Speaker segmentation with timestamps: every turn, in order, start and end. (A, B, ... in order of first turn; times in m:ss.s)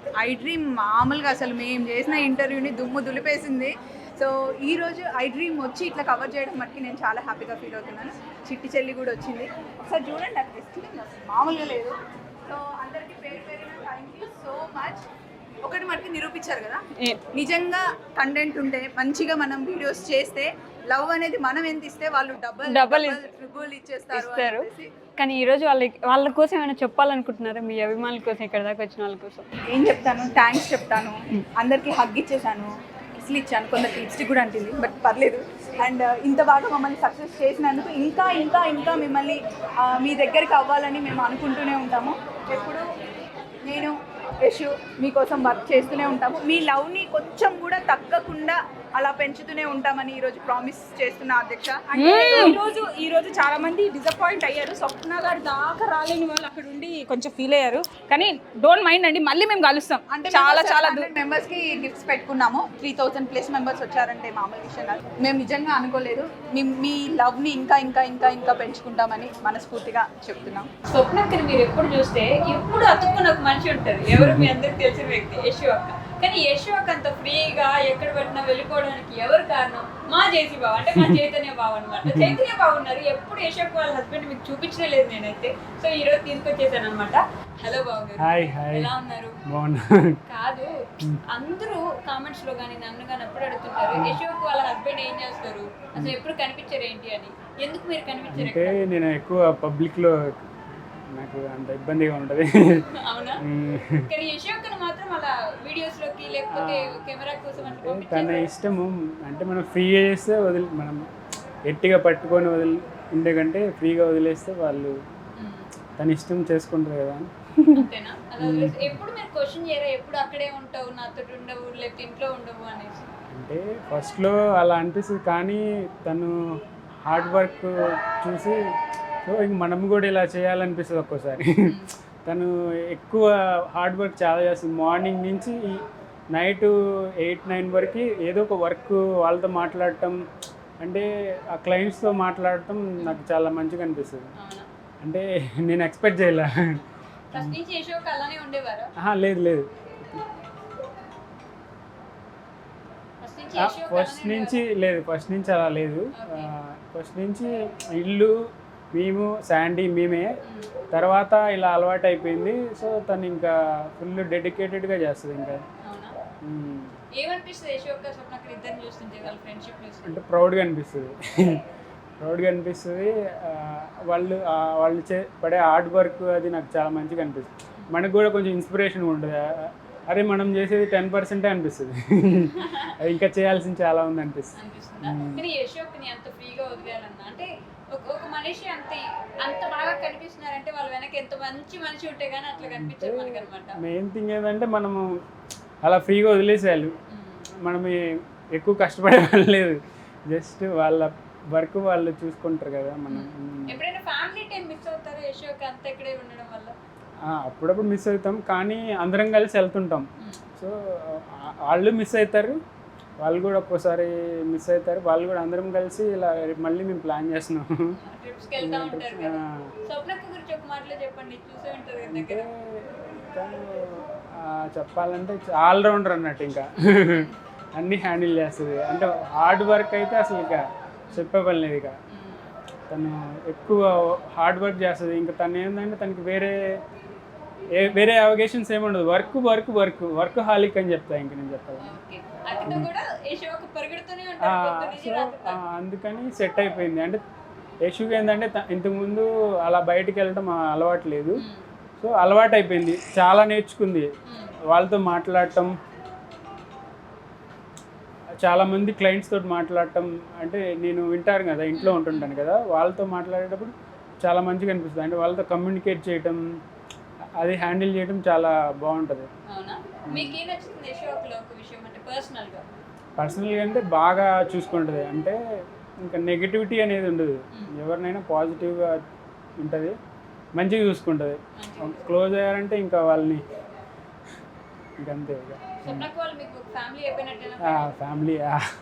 0:00.2-0:12.0 A
0:12.5-0:15.0 A
0:15.6-0:16.8 A
0:17.4-0:24.9 A
0:22.7-0:23.2 B
0:24.1-0:24.7 B
0:25.2-0:29.5 B
0:29.7-0:42.9 A
0:43.7-0:52.6 A
0:51.9-1:01.1 C
0:52.0-0:52.6 B
1:00.1-1:10.7 A
1:10.9-1:29.4 B
1:14.1-1:14.5 D
1:21.0-1:21.3 D
1:22.1-1:22.4 D
1:28.2-1:28.9 D
1:29.5-1:30.2 D
1:30.3-1:30.8 B
1:31.3-1:38.8 B
1:38.3-1:40.5 D
1:41.1-1:42.8 D
1:43.0-1:43.4 B
1:43.4-1:44.1 D
1:44.1-1:48.5 B
1:46.6-1:47.0 D
1:47.6-1:51.0 D
1:51.7-1:55.0 D
1:55.4-1:55.7 B
1:56.0-1:57.9 D
1:57.8-2:03.1 B
1:58.4-1:59.0 D
2:03.3-2:06.3 D
2:07.1-2:08.6 D
2:09.2-2:11.8 D
2:12.3-2:15.8 D
2:16.3-2:20.2 D
2:20.8-2:24.2 D
2:24.4-2:24.7 B
2:25.0-2:26.8 D
2:27.3-2:28.9 B
2:29.0-2:29.6 D
2:33.2-2:34.6 B
2:33.6-2:38.3 D
2:36.2-2:36.5 B
2:38.9-2:40.3 D
2:40.4-2:40.7 B
2:40.9-2:45.6 D
2:45.8-2:46.2 B
2:46.4-2:46.9 D
2:47.2-2:50.2 B
2:50.1-2:51.6 D
2:52.2-3:04.5 D
3:02.3-3:02.9 B
3:04.6-3:13.8 B
3:05.0-3:05.4 D
3:12.6-3:15.1 D
3:15.8-3:16.9 D
3:17.1-3:17.4 B
3:17.6-3:18.0 D
3:18.5-3:19.8 D
3:20.3-3:23.8 D
3:23.1-3:26.8 B
3:27.3-3:30.1 D
3:30.6-3:32.6 D
3:33.2-3:38.0 D
3:38.0-3:42.4 B
3:38.6-3:39.7 D
3:42.1-3:51.9 D
3:46.9-3:47.4 B
3:52.1-3:52.5 B
3:52.9-3:56.5 D
3:57.8-4:01.9 D
4:01.8-4:05.6 B
4:04.4-4:07.2 D
4:07.8-4:11.4 D
4:11.4-4:11.7 B
4:12.0-4:14.1 D
4:14.7-4:15.7 D
4:18.4-4:26.4 D
4:21.8-4:22.3 B
4:27.4-4:29.3 D
4:29.5-4:32.6 B
4:30.1-4:30.4 D
4:33.2-4:35.4 D
4:36.0-4:39.0 D
4:39.6-4:40.0 D
4:40.6-4:43.4 D
4:41.6-4:42.0 B
4:45.0-4:46.1 D
4:45.8-4:47.9 B
4:47.7-4:48.6 D